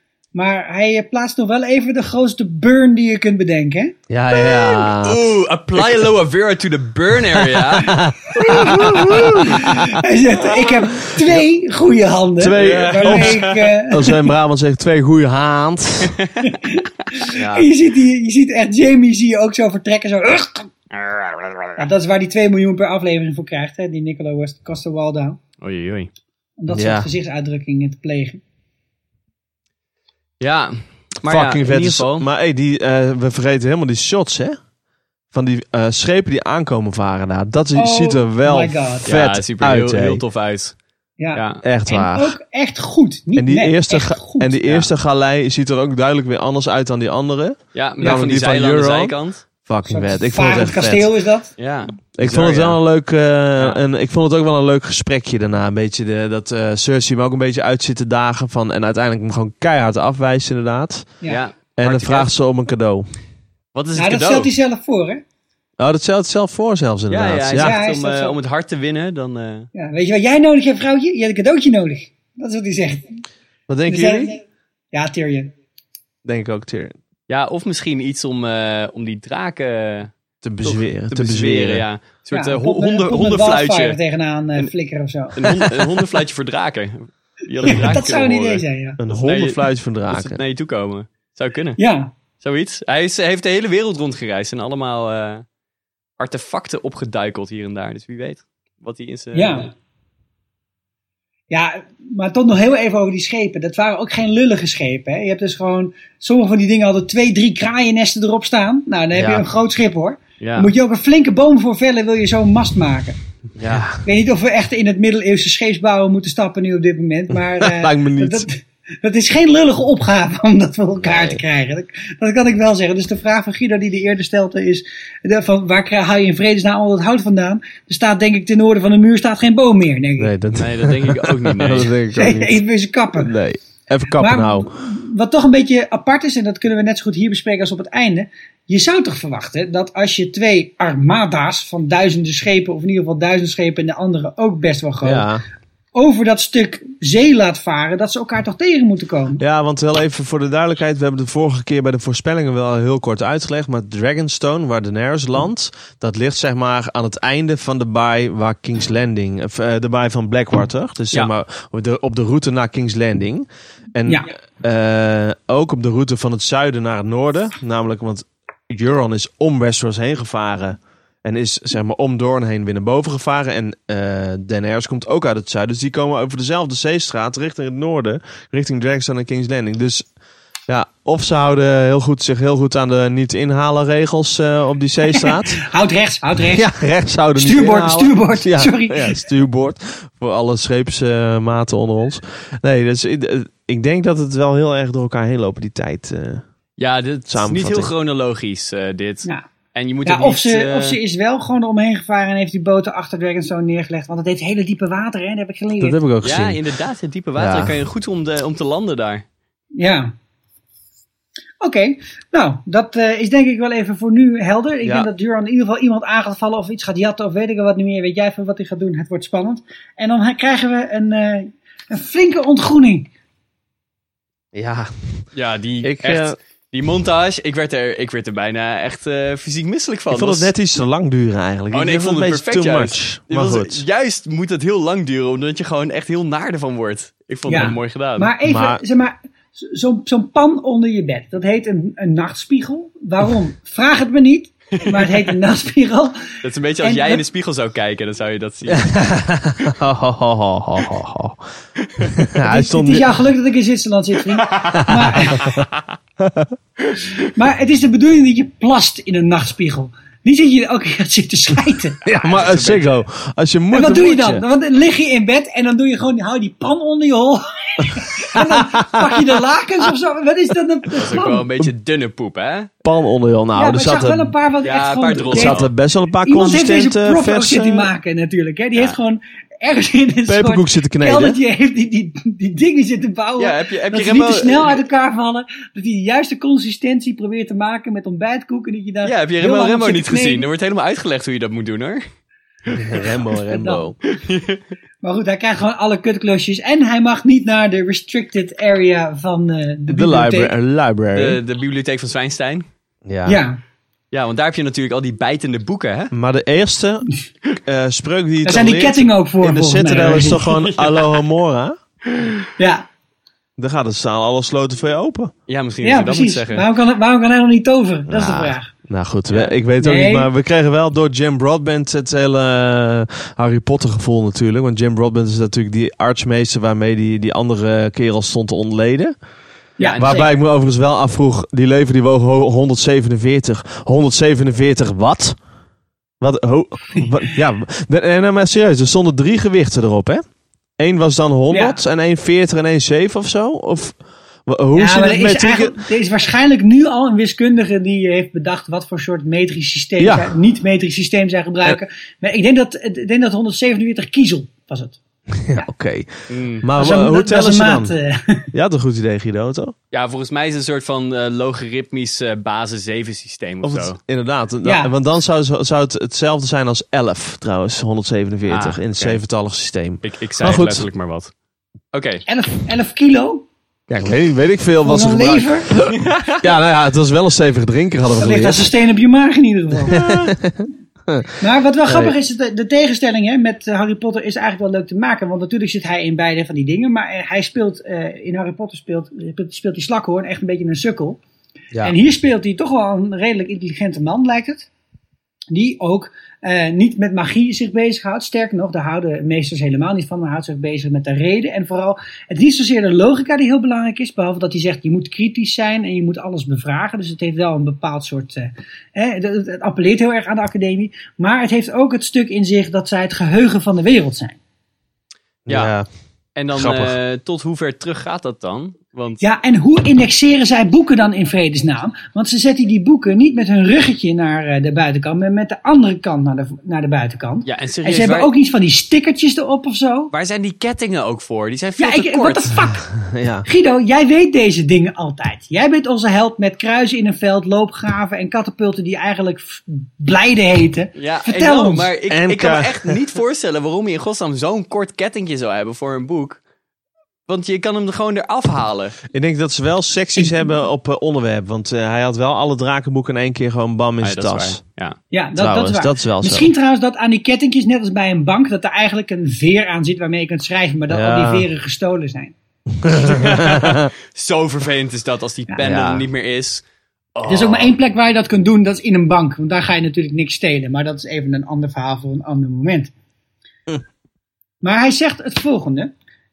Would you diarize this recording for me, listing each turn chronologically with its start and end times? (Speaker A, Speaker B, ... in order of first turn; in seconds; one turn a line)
Speaker A: 0.3-4.0
Speaker B: 4.1-5.2
Speaker C: 4.3-8.0
Speaker B: 7.3-9.9
Speaker A: 8.3-14.2
Speaker C: 8.7-9.6
Speaker B: 12.4-16.1
Speaker C: 12.6-13.7
Speaker A: 16.4-20.7
Speaker B: 17.4-17.7
Speaker C: 20.9-21.8
Speaker A: 21.8-25.4
Speaker C: 25.6-26.1
Speaker A: 26.6-28.4
Speaker B: 26.7-27.1
Speaker C: 30.4-32.3
Speaker B: 31.3-34.6
Speaker B: 35.3-40.2
Speaker A: 37.8-39.1
Speaker C: 39.0-40.7
Speaker A: 41.2-44.5
Speaker C: 41.3-41.6
Speaker B: 41.6-42.3
Speaker B: 43.4-51.1
Speaker C: 47.7-49.4
Speaker A: 49.9-51.5
Speaker C: 51.6-52.8
Speaker B: 52.2-61.1
Speaker C: 61.2-62.3
Speaker B: 61.8-63.1
Speaker C: 63.7-64.5
Speaker A: 64.0-65.2
Speaker B: 65.8-67.8
Speaker C: 67.1-69.7
Speaker A: 67.6-68.3
Speaker A: 69.7-73.2
Speaker B: 73.7-74.3
Speaker A: 73.9-74.4
Speaker A: 74.9-75.5
Speaker B: 76.2-77.0
Speaker C: 77.3-80.1
Speaker B: 80.4-81.8
Speaker C: 80.6-84.0
Speaker A: 82.3-85.5
Speaker C: 85.3-91.8
Speaker A: 87.6-89.0
Speaker B: 89.0-90.4
Speaker A: 91.8-92.1
Speaker C: 92.4-95.4
Speaker C: 96.2-99.7
Speaker A: 99.3-99.7
Speaker A: 101.5-113.2
Speaker B: 109.1-109.5
Speaker C: 110.4-110.7
Speaker C: 113.6-113.8
Speaker B: 113.6-114.0
Speaker A: 114.0-130.3
Speaker B: 117.3-118.5
Speaker B: 121.0-121.4
Speaker B: 130.2-132.6
Speaker C: 130.5-131.9
Speaker A: 132.1-133.3
Speaker B: 133.2-134.7
Speaker A: 134.2-145.3
Speaker B: 145.0-145.4
Speaker A: 145.9-149.4
Speaker B: 149.4-180.1
Speaker B: 180.7-185.6
Speaker A: 185.1-186.7
Speaker B: 186.5-196.4
Speaker A: 187.3-189.2
Speaker C: 196.8-201.0
Speaker B: 197.3-197.9
Speaker A: 200.0-206.0
Speaker B: 205.8-206.6
Speaker C: 206.2-209.2
Speaker B: 207.4-207.8
Speaker A: 209.8-210.1
Speaker A: 211.6-223.1
Speaker B: 214.8-215.1
Speaker B: 224.5-225.2
Speaker C: 225.3-230.5
Speaker B: 225.8-226.3
Speaker B: 230.1-233.8
Speaker C: 231.7-238.3
Speaker A: 237.5-247.2
Speaker B: 238.4-238.8
Speaker C: 244.8-245.1
Speaker C: 246.4-249.0
Speaker B: 248.7-251.4
Speaker B: 252.2-253.2
Speaker A: 252.4-255.5
Speaker C: 254.5-254.8
Speaker B: 254.7-255.6
Speaker C: 255.3-255.8
Speaker B: 256.2-256.5
Speaker A: 257.3-262.0
Speaker B: 262.0-264.4
Speaker C: 262.2-262.9
Speaker A: 263.7-271.5
Speaker B: 268.3-269.2
Speaker C: 271.0-272.7
Speaker B: 272.8-274.3
Speaker A: 273.6-275.6
Speaker C: 274.6-275.7
Speaker B: 275.3-277.9
Speaker A: 276.2-290.5
Speaker B: 280.3-281.4
Speaker C: 283.4-284.8
Speaker C: 289.0-292.0
Speaker B: 292.7-294.0
Speaker A: 293.5-293.8
Speaker C: 294.1-294.6
Speaker A: 295.0-300.5
Speaker B: 299.9-301.4
Speaker C: 301.1-302.6
Speaker B: 303.1-303.4
Speaker A: 303.3-303.6
Speaker C: 304.1-306.1
Speaker B: 306.1-307.1
Speaker B: 307.6-311.8
Speaker A: 308.4-310.4
Speaker C: 310.5-311.0
Speaker A: 312.6-312.8
Speaker B: 313.6-315.3
Speaker C: 315.5-316.6
Speaker A: 315.8-318.7
Speaker B: 318.1-329.1
Speaker A: 319.8-320.3
Speaker A: 329.8-330.3
Speaker C: 329.8-330.2
Speaker B: 330.0-335.4
Speaker B: 336.2-340.2
Speaker B: 340.8-345.8
Speaker A: 341.5-341.8
Speaker A: 344.7-355.0
Speaker B: 350.0-350.3
Speaker B: 355.4-357.9
Speaker C: 356.3-356.6
Speaker A: 356.8-358.5
Speaker B: 358.5-359.7
Speaker C: 359.9-364.0
Speaker B: 363.6-370.9
Speaker A: 364.6-364.9
Speaker C: 368.5-369.2
Speaker C: 370.0-371.3
Speaker C: 371.9-372.2
Speaker A: 372.3-373.5
Speaker B: 373.9-378.7
Speaker A: 374.8-375.7
Speaker C: 376.1-376.4
Speaker A: 378.2-380.0
Speaker B: 379.9-381.3
Speaker A: 381.4-391.2
Speaker B: 381.9-382.1
Speaker A: 391.8-394.7
Speaker A: 395.5-414.4
Speaker B: 415.4-415.9
Speaker C: 415.5-415.7
Speaker C: 416.4-419.2
Speaker B: 416.5-417.0
Speaker A: 419.2-430.1
Speaker C: 427.4-428.3
Speaker C: 430.1-432.5
Speaker A: 431.8-432.9
Speaker B: 433.1-433.4
Speaker A: 433.4-441.9
Speaker C: 440.9-446.4
Speaker B: 442.1-442.9
Speaker C: 447.3-449.0
Speaker B: 449.1-454.6
Speaker C: 454.0-455.0
Speaker A: 455.1-462.3
Speaker B: 455.4-456.5
Speaker B: 460.9-461.4
Speaker B: 462.8-463.9
Speaker C: 463.0-466.6
Speaker B: 465.6-466.1
Speaker B: 467.2-467.7
Speaker A: 467.3-472.9
Speaker A: 474.6-475.9